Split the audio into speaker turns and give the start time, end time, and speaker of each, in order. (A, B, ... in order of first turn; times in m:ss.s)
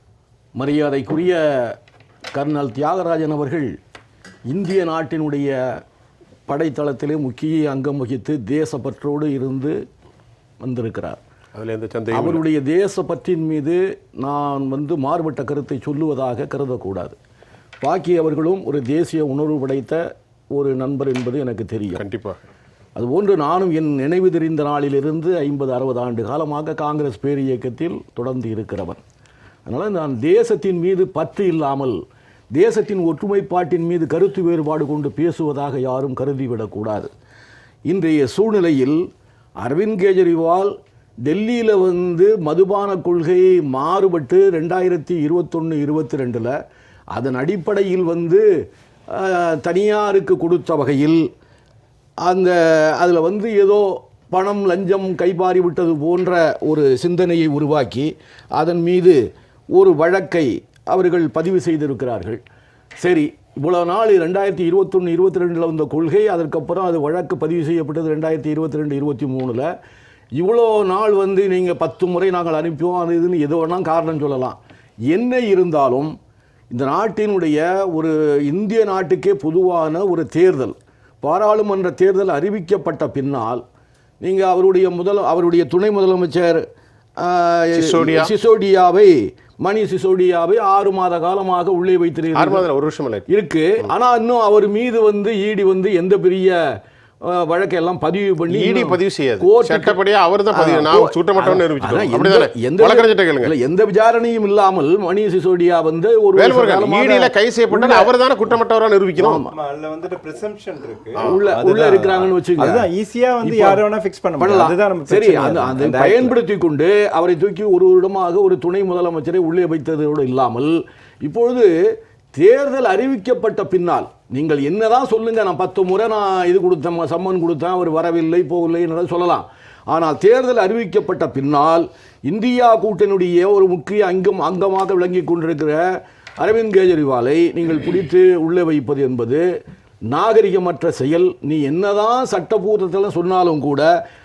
0:00.6-0:01.8 A
0:02.3-0:03.7 A
0:04.5-0:05.6 A
0:06.5-0:09.8 A
0:10.6-0:11.2 A
0:11.5-0:12.4 B
0:12.1-0:17.2 A
0:17.8-0:20.0 A
0:20.5-0:22.0 A
0:21.9-0:22.4 B
0:23.0-0:29.0 A
0:29.7-0:32.0 A
0:32.5-0:37.1 A
0:37.9-0:39.0 A
0:39.6-0:40.7 A
0:41.3-0:46.5 A
0:47.1-0:48.4 A
0:49.1-0:51.2 A
0:52.2-0:59.2 A
0:59.7-1:02.4 A
1:03.0-1:09.7 A
1:10.4-1:14.6 A
1:15.1-1:16.1 A
1:16.7-1:23.6 A
1:24.2-1:26.6 A
1:27.2-1:32.6 A
1:27.7-1:28.3 B
1:32.3-1:33.3 B
1:33.3-1:36.6 A
1:37.2-1:40.0 A
1:38.5-1:43.5 B
1:40.5-1:48.1 A
1:46.3-1:49.4 B
1:49.2-1:49.5 A
1:49.5-1:56.4 C
1:51.1-1:51.4 B
1:51.2-1:52.8 A
1:53.4-1:53.8 A
1:54.4-2:01.7 A
2:02.4-2:15.8 A
2:16.4-2:19.4 A
2:20.1-2:23.9 A